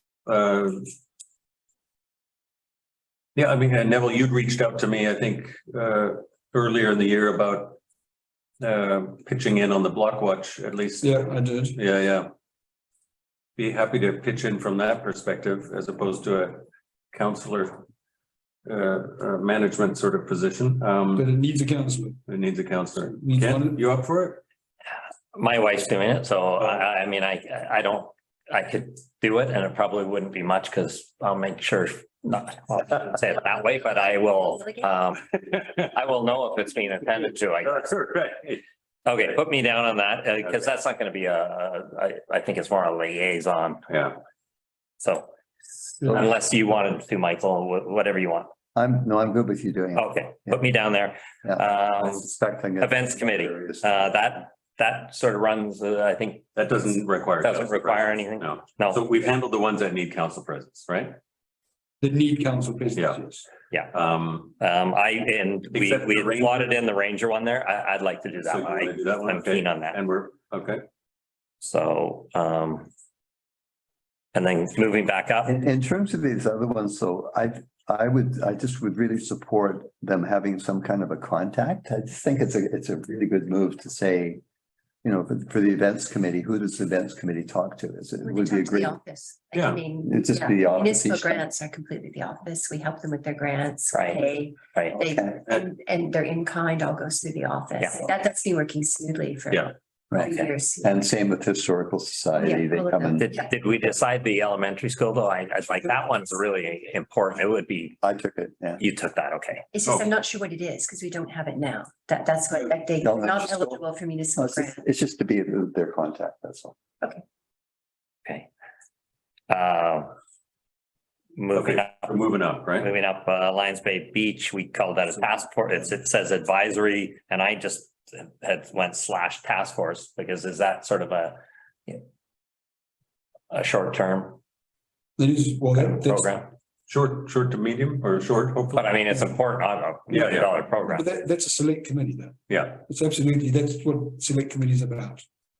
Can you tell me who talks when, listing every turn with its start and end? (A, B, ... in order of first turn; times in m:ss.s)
0:00.2-0:00.9 A
0:03.3-0:07.8 A
0:08.6-0:12.3 A
0:11.0-0:11.8 B
0:13.6-0:17.8 A
0:18.6-0:21.3 A
0:21.1-0:22.2 B
0:22.3-0:24.4 A
0:23.0-0:23.9 B
0:25.3-0:37.9 C
0:34.0-0:34.9 D
0:37.6-0:38.6 A
0:39.0-0:43.8 C
0:43.9-0:44.2 A
0:45.0-0:45.3 C
0:46.0-0:48.5 C
0:48.7-0:50.6 E
0:49.9-0:52.3 C
0:51.4-0:54.2 E
0:52.8-0:56.5 C
0:56.6-1:01.2 A
0:57.4-0:59.0 C
1:02.0-1:03.4 B
1:03.9-1:04.5 A
1:04.6-1:10.0 C
1:05.7-1:06.8 A
1:08.4-1:10.8 A
1:11.6-1:12.9 C
1:14.3-1:15.5 C
1:15.4-1:24.4 E
1:25.0-1:29.0 E
1:28.2-1:40.9 D
1:29.5-1:29.8 A
1:30.0-1:31.4 E
1:33.9-1:35.0 C
1:35.1-1:35.3 E
1:40.1-1:43.3 E
1:42.4-1:43.5 D
1:43.1-1:48.0 C
1:48.0-1:48.8 E
1:48.8-1:49.7 C
1:49.7-1:54.8 D
1:53.0-1:53.8 E
1:54.3-1:56.7 E
1:59.5-2:00.1 C
2:01.4-2:02.1 C
2:01.5-2:02.9 A
2:02.8-2:12.0 C
2:13.5-2:14.4 C
2:15.2-2:16.4 B
2:15.7-2:16.5 C
2:16.9-2:19.0 A
2:18.7-2:21.0 C
2:20.1-2:25.3 B
2:20.1-2:20.5 A
2:22.5-2:22.8 A